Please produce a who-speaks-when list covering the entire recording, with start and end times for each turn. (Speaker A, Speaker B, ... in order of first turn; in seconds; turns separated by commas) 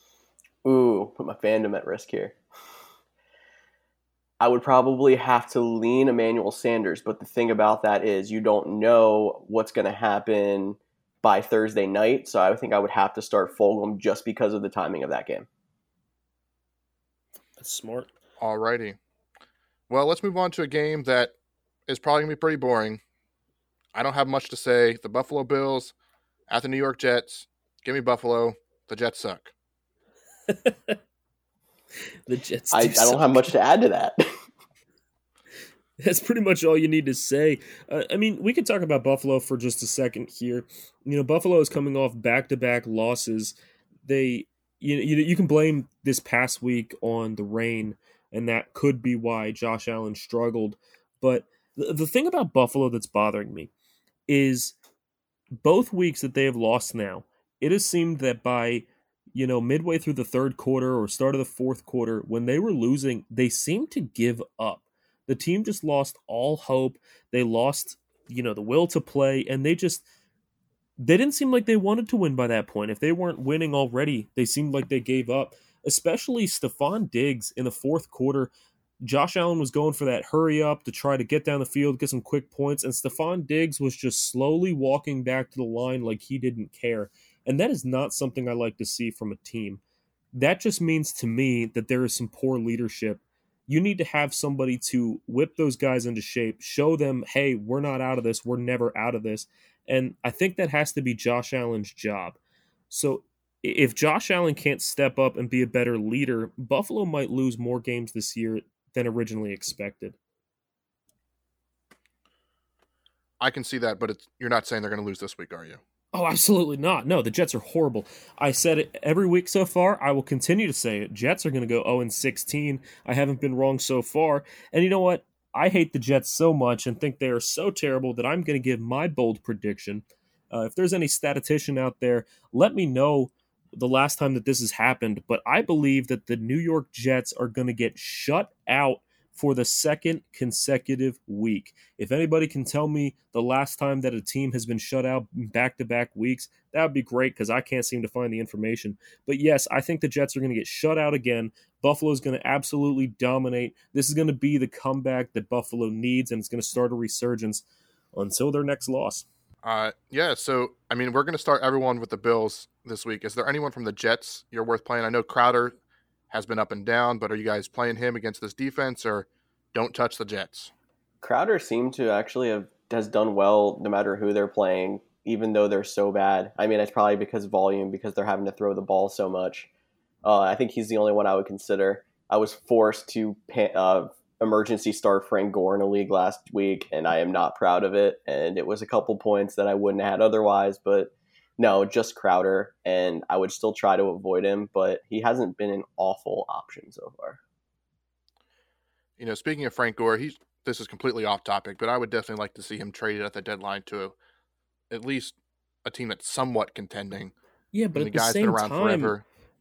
Speaker A: 0.6-2.4, Speaker A: 4.4-15.5, Speaker B: 17.6-18.1, Speaker C: 18.4-19.0, Speaker C: 19.9-21.3, Speaker C: 21.9-23.0, Speaker C: 23.9-25.9, Speaker C: 26.5-29.5, Speaker B: 30.5-31.0, Speaker B: 32.3-33.4, Speaker A: 32.7-34.2, Speaker B: 36.0-53.7, Speaker B: 54.3-54.8, Speaker B: 55.6-70.0, Speaker B: 71.0-78.5, Speaker B: 79.0-89.8, Speaker B: 90.3-102.4, Speaker B: 102.9-110.2, Speaker C: 113.4-115.8, Speaker B: 116.1-159.2, Speaker C: 159.6-165.8, Speaker C: 166.3-170.7, Speaker A: 171.2-179.7, Speaker A: 180.2-197.4, Speaker C: 199.2-204.2, Speaker C: 204.9-207.3, Speaker B: 207.7-209.1, Speaker C: 207.9-209.2